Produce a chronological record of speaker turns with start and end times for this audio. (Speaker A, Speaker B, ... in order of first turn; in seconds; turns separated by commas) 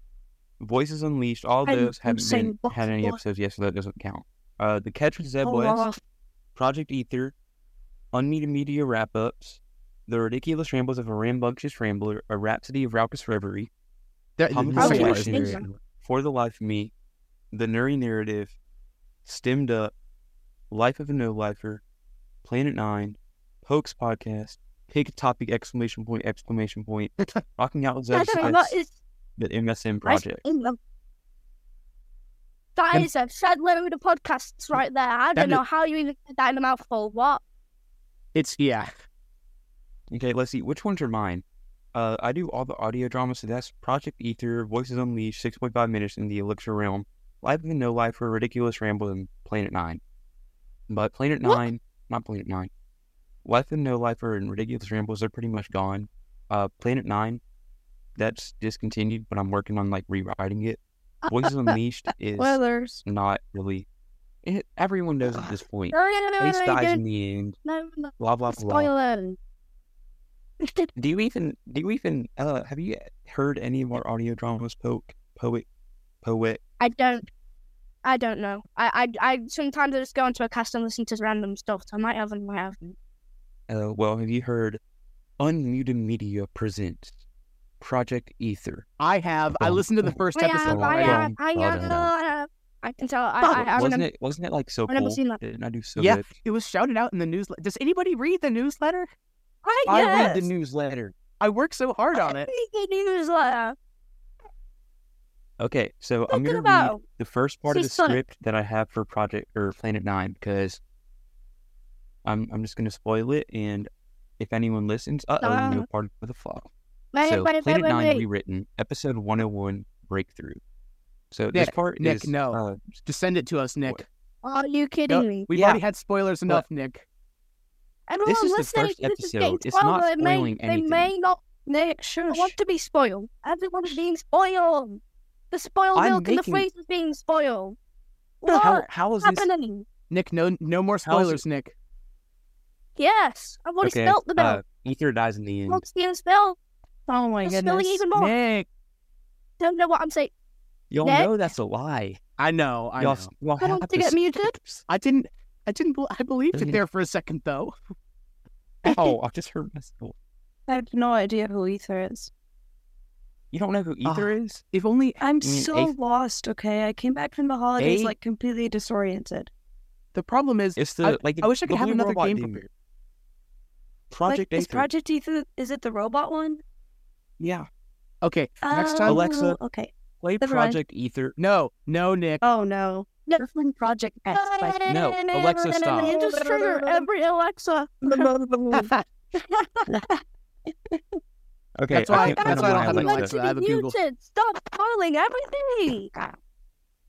Speaker A: 0.6-5.8, Speaker B: 1.7-3.1, Speaker B: 5.4-5.9, Speaker A: 6.6-7.3, Speaker A: 8.1-13.7, Speaker C: 14.4-15.7, Speaker A: 14.5-16.9, Speaker B: 14.8-15.6, Speaker A: 17.5-18.6, Speaker A: 19.2-19.9, Speaker A: 20.7-21.8, Speaker A: 22.4-28.8, Speaker B: 28.1-28.9, Speaker A: 29.4-30.4, Speaker B: 30.0-30.8, Speaker B: 32.8-37.4, Speaker C: 35.4-35.6, Speaker C: 38.4-38.9, Speaker A: 40.1-50.0, Speaker A: 50.9-52.7, Speaker A: 53.4-57.4, Speaker A: 58.1-63.9, Speaker D: 62.4-63.0, Speaker A: 64.4-67.6, Speaker B: 65.9-67.0, Speaker B: 67.6-69.4, Speaker A: 68.2-68.9, Speaker A: 71.0-75.7, Speaker A: 76.2-76.6, Speaker B: 76.8-77.2, Speaker B: 78.0-82.8, Speaker A: 83.7-84.8, Speaker A: 85.4-87.1, Speaker A: 87.8-88.9, Speaker C: 89.0-91.2, Speaker A: 89.5-92.1, Speaker B: 90.4-94.1, Speaker A: 93.5-96.3, Speaker B: 94.9-95.4, Speaker C: 96.0-99.1, Speaker B: 99.6-100.5, Speaker A: 99.9-101.1, Speaker C: 101.4-102.5, Speaker B: 102.2-103.7, Speaker A: 105.6-110.8, Speaker B: 106.3-107.0, Speaker B: 107.7-108.2, Speaker A: 112.2-116.7, Speaker B: 115.4-115.9, Speaker B: 117.1-118.2, Speaker A: 117.2-120.6, Speaker A: 121.3-123.0, Speaker C: 121.5-124.0, Speaker B: 124.4-125.5, Speaker C: 125.1-127.1, Speaker A: 125.5-125.8, Speaker B: 128.1-131.4, Speaker A: 128.2-131.1, Speaker D: 131.7-132.6, Speaker B: 132.3-135.0, Speaker B: 135.5-137.8, Speaker A: 135.9-136.7, Speaker B: 138.4-139.8, Speaker A: 138.5-139.5, Speaker C: 140.1-141.7, Speaker A: 141.1-141.4, Speaker B: 143.0-144.6, Speaker A: 143.8-145.9, Speaker B: 145.7-146.6, Speaker D: 147.1-148.0, Speaker B: 147.4-148.3, Speaker C: 148.1-148.7, Speaker B: 149.6-150.3, Speaker A: 150.9-152.2, Speaker B: 151.0-151.3, Speaker C: 152.4-153.3, Speaker A: 153.0-154.8, Speaker B: 153.6-154.6, Speaker C: 154.9-157.7, Speaker A: 156.5-156.8, Speaker A: 158.8-160.1, Speaker D: 160.7-162.3, Speaker A: 163.5-164.6, Speaker C: 164.0-165.2, Speaker D: 165.2-169.5, Speaker A: 165.4-165.9, Speaker A: 167.8-168.1, Speaker C: 170.1-172.7, Speaker A: 170.8-172.6, Speaker A: 174.1-174.9, Speaker D: 174.2-176.6, Speaker A: 177.4-177.7, Speaker C: 178.2-179.2, Speaker D: 178.6-180.8, Speaker A: 179.1-179.6, Speaker A: 180.2-181.4, Speaker C: 181.4-182.4, Speaker D: 182.4-187.1, Speaker B: 184.3-184.9, Speaker A: 184.9-186.1, Speaker B: 185.9-188.3, Speaker D: 189.8-190.2, Speaker A: 191.8-193.3, Speaker C: 191.9-194.0, Speaker B: 192.1-196.1